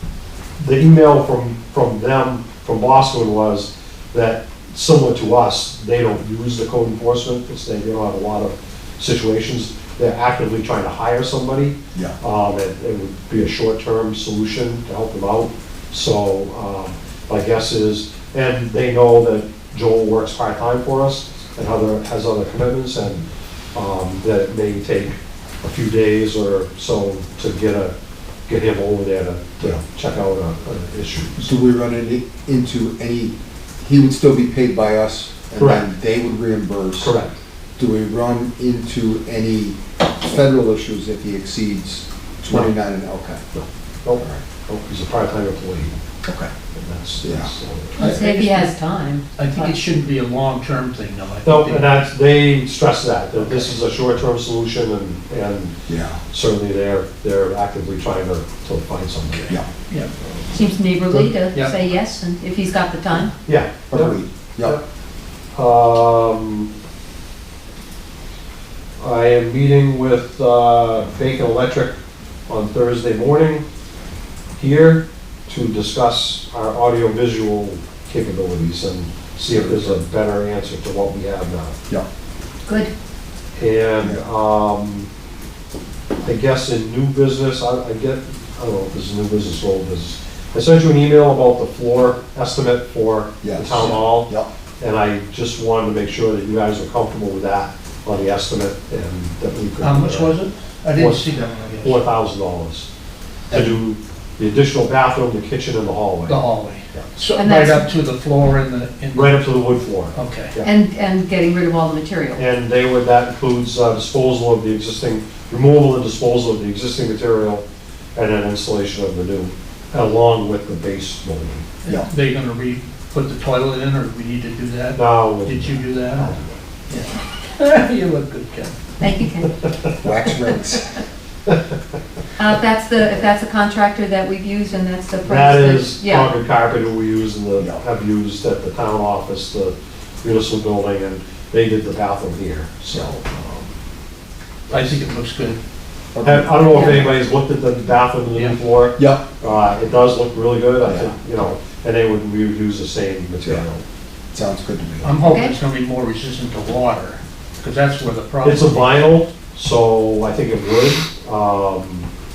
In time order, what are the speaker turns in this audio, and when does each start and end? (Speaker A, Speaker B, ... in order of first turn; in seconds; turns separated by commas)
Speaker A: 0.6-27.9, Speaker A: 28.5-31.4, Speaker B: 31.4-37.1, Speaker A: 35.5-35.9, Speaker A: 37.0-37.4, Speaker B: 37.8-43.4, Speaker A: 43.5-46.0, Speaker B: 44.2-44.4, Speaker B: 46.2-46.5, Speaker A: 46.7-48.1, Speaker B: 47.2-47.5, Speaker C: 48.0-48.7, Speaker D: 48.0-49.8, Speaker C: 49.4-52.0, Speaker A: 51.4-55.7, Speaker B: 55.9-56.2, Speaker A: 56.3-59.5, Speaker D: 60.5-63.3, Speaker C: 61.1-61.7, Speaker A: 63.4-64.8, Speaker B: 63.9-64.8, Speaker A: 65.5-66.7, Speaker A: 69.0-71.9, Speaker A: 72.5-73.6, Speaker A: 74.6-81.8, Speaker B: 79.5-80.0, Speaker D: 82.7-82.9, Speaker A: 83.6-85.1, Speaker A: 86.2-100.3, Speaker B: 93.4-94.5, Speaker C: 99.8-102.1, Speaker A: 100.9-102.9, Speaker B: 103.5-103.8, Speaker A: 103.5-106.4, Speaker C: 106.3-109.5, Speaker D: 107.3-107.9, Speaker A: 109.1-110.7, Speaker C: 110.1-110.5, Speaker D: 110.6-112.4, Speaker A: 112.3-117.6, Speaker A: 118.2-121.7, Speaker C: 121.8-126.3, Speaker A: 124.9-126.6, Speaker C: 126.9-128.8, Speaker D: 129.0-129.7, Speaker B: 130.0-131.0, Speaker D: 132.4-136.3, Speaker A: 135.2-143.7, Speaker C: 144.7-145.6, Speaker A: 144.7-145.0, Speaker B: 146.1-147.2, Speaker A: 146.2-153.8, Speaker D: 146.7-147.0, Speaker B: 149.0-149.4, Speaker B: 150.8-151.1, Speaker B: 154.3-155.2, Speaker C: 155.0-159.1, Speaker D: 155.2-155.5, Speaker A: 158.4-162.1